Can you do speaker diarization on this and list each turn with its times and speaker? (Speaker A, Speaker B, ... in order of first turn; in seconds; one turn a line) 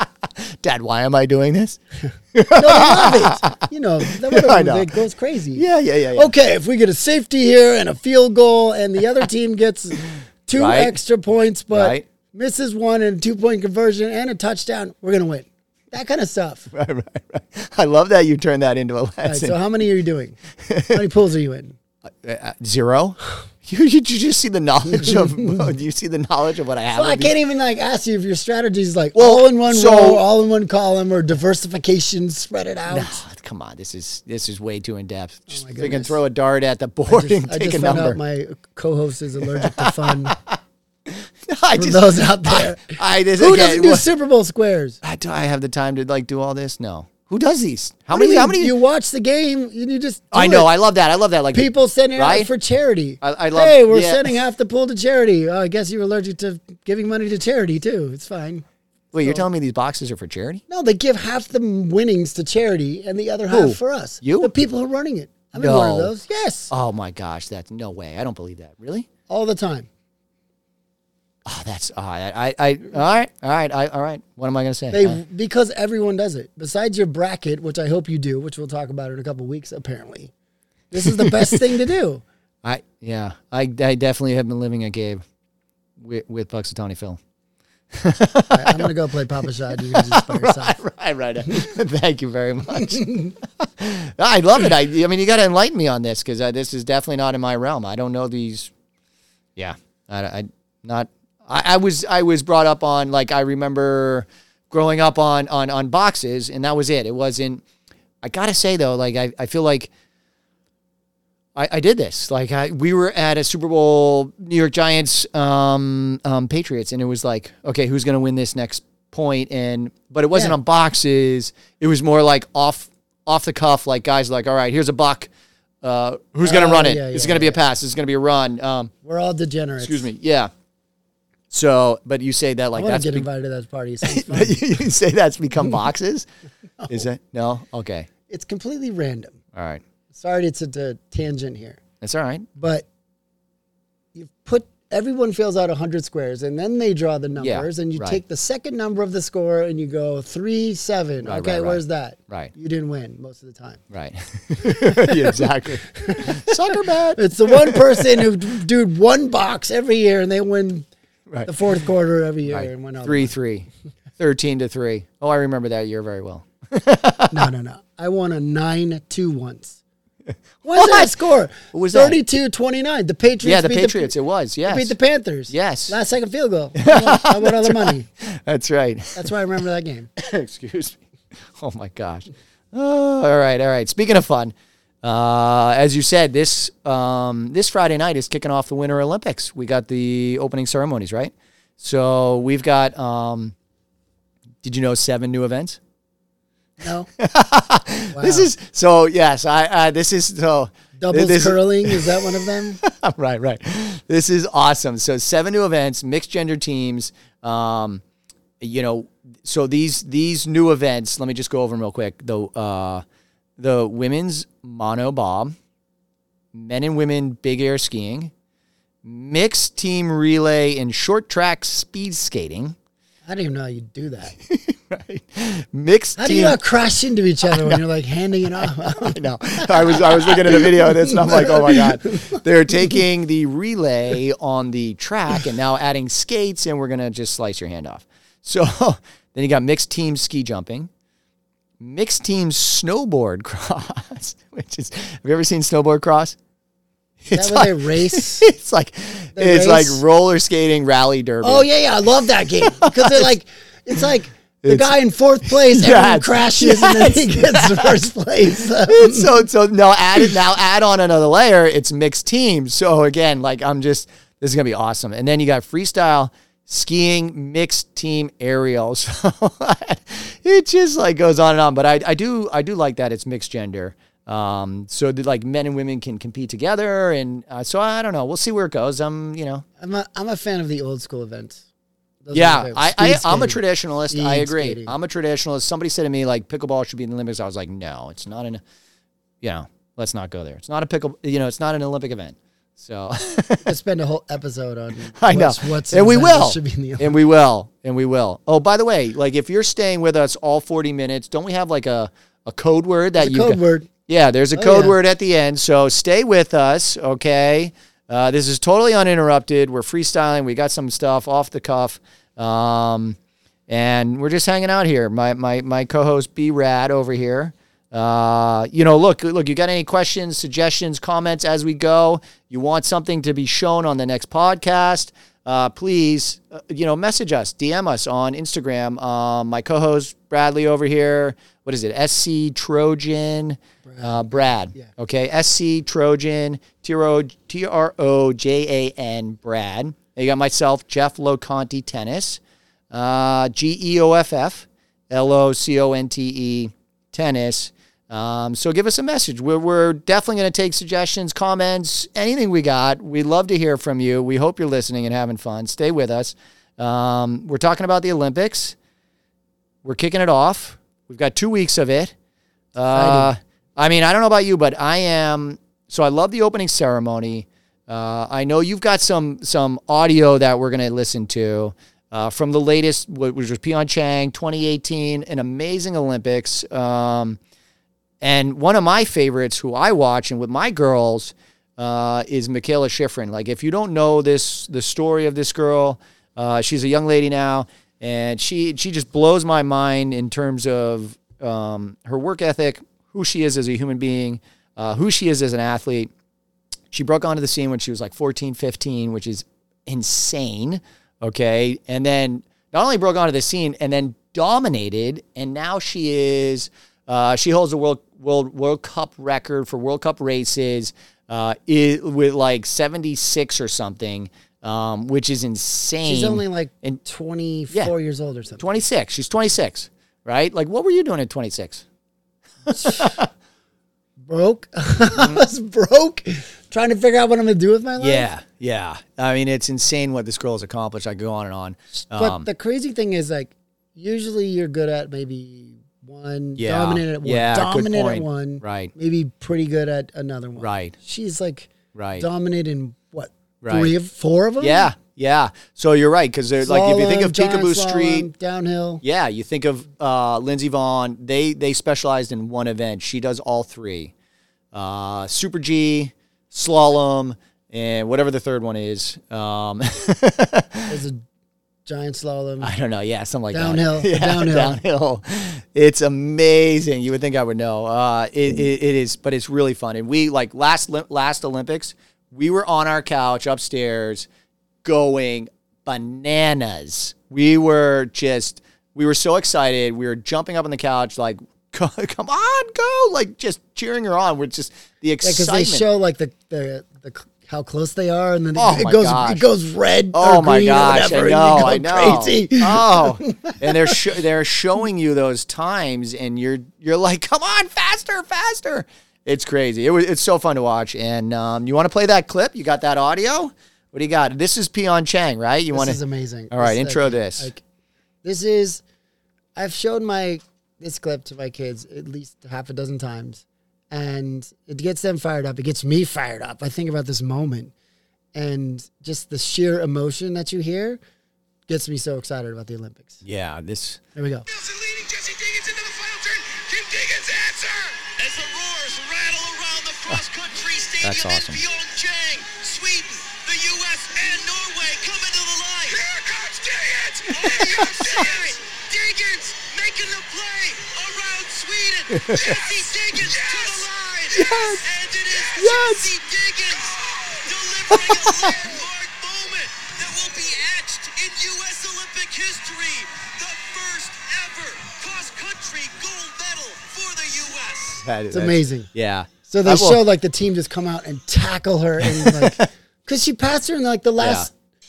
Speaker A: 0.2-1.8
Speaker A: 2.3-4.9
Speaker B: 2.5-16.7
Speaker A: 5.5-6.3
Speaker A: 10.6-11.0
Speaker A: 11.7-12.1
Speaker A: 16.7-19.6
Speaker B: 19.2-20.4
Speaker A: 20.7-21.0
Speaker B: 20.9-21.8
Speaker A: 22.1-27.3
Speaker B: 24.9-25.7
Speaker B: 26.9-33.2
Speaker A: 29.2-30.2
Speaker A: 32.9-38.2
Speaker B: 35.5-36.2
Speaker B: 37.1-40.4
Speaker A: 39.6-44.1
Speaker B: 41.8-45.0
Speaker A: 45.0-48.7
Speaker B: 48.1-50.7
Speaker A: 50.3-52.5
Speaker B: 51.5-58.6
Speaker A: 53.2-54.3
Speaker A: 59.1-60.6
Speaker B: 59.2-59.5
Speaker B: 60.7-66.7
Speaker A: 63.5-64.5
Speaker A: 65.6-66.1
Speaker A: 66.7-69.1
Speaker B: 69.3-69.9
Speaker A: 71.5-75.2
Speaker B: 74.9-80.3
Speaker B: 80.9-82.2
Speaker A: 81.1-81.6
Speaker A: 82.6-85.2
Speaker A: 86.0-87.2
Speaker A: 87.9-88.9
Speaker B: 88.5-90.8
Speaker A: 89.8-98.7
Speaker B: 92.8-93.3
Speaker A: 99.6-107.6
Speaker A: 108.2-109.9
Speaker A: 111.6-125.3
Speaker A: 125.8-128.9
Speaker B: 126.4-127.6
Speaker B: 129.0-130.1
Speaker A: 129.8-130.5
Speaker A: 131.5-133.3
Speaker B: 132.8-134.7
Speaker A: 134.0-136.3
Speaker B: 136.8-137.1
Speaker A: 136.9-138.1
Speaker B: 138.3-139.4
Speaker A: 139.5-139.8
Speaker B: 140.1-141.8
Speaker A: 142.0-142.5
Speaker B: 142.6-142.9
Speaker B: 144.1-153.8
Speaker A: 147.4-148.2
Speaker A: 151.2-152.5
Speaker A: 153.9-157.8
Speaker B: 154.6-155.4
Speaker B: 156.0-160.9
Speaker B: 161.5-163.3
Speaker A: 162.5-167.5
Speaker B: 167.3-169.8
Speaker A: 170.3-172.2
Speaker B: 170.6-174.1
Speaker A: 173.4-174.9
Speaker B: 174.7-178.1
Speaker A: 175.5-176.0
Speaker A: 176.8-179.3
Speaker B: 179.2-180.1
Speaker A: 180.2-181.0
Speaker A: 181.5-193.6
Speaker A: 194.6-195.8
Speaker B: 196.8-197.1
Speaker A: 197.2-208.0
Speaker B: 198.1-198.5
Speaker B: 201.0-202.8
Speaker A: 208.6-213.0
Speaker A: 213.6-215.6
Speaker A: 216.5-218.3
Speaker A: 219.0-222.8
Speaker B: 223.2-224.4
Speaker A: 224.4-226.6
Speaker B: 226.2-233.0
Speaker A: 227.5-227.8
Speaker A: 228.6-240.9
Speaker A: 241.8-246.4
Speaker A: 247.2-251.7
Speaker B: 247.3-248.5
Speaker B: 249.4-250.0
Speaker B: 251.4-259.4
Speaker A: 252.7-253.3
Speaker A: 254.6-254.9
Speaker A: 255.4-258.0
Speaker A: 258.8-279.6
Speaker B: 279.8-281.6
Speaker B: 282.2-284.9
Speaker A: 282.3-288.6
Speaker A: 289.4-293.7
Speaker B: 293.6-297.2
Speaker A: 295.1-313.2
Speaker B: 303.2-303.9
Speaker B: 304.6-305.0
Speaker A: 313.7-342.4
Speaker B: 333.9-334.9
Speaker A: 342.9-358.8
Speaker A: 359.8-362.1
Speaker A: 362.8-377.4
Speaker B: 362.9-363.3
Speaker A: 378.2-396.1
Speaker A: 396.9-417.0
Speaker B: 416.1-418.7
Speaker A: 418.6-421.9
Speaker A: 422.7-423.3
Speaker B: 422.8-423.2
Speaker B: 424.2-428.3
Speaker A: 425.1-425.4
Speaker A: 428.0-432.5
Speaker B: 432.1-444.9
Speaker A: 436.6-438.9
Speaker A: 440.6-440.9
Speaker A: 441.9-442.3
Speaker A: 443.6-443.9
Speaker A: 444.6-448.3
Speaker B: 446.6-449.0
Speaker A: 449.0-454.1
Speaker A: 454.7-461.0
Speaker B: 460.9-461.2
Speaker B: 461.9-462.7
Speaker A: 462.6-474.3
Speaker B: 463.5-464.8
Speaker A: 474.8-485.9
Speaker B: 485.2-494.0
Speaker A: 488.6-489.4
Speaker A: 490.1-506.0
Speaker B: 505.7-507.6
Speaker A: 506.5-507.5
Speaker B: 508.2-508.8
Speaker B: 509.6-517.7
Speaker B: 518.4-521.0
Speaker B: 521.7-523.2
Speaker A: 523.2-524.0
Speaker B: 524.2-524.5
Speaker C: 524.5-558.0
Speaker A: 531.0-531.6
Speaker A: 537.6-538.2
Speaker A: 542.1-542.6
Speaker A: 544.3-544.9
Speaker A: 545.5-546.1
Speaker A: 547.9-548.6
Speaker A: 558.0-560.0
Speaker B: 558.3-558.9
Speaker B: 559.5-564.5
Speaker A: 562.0-562.7
Speaker A: 564.2-564.5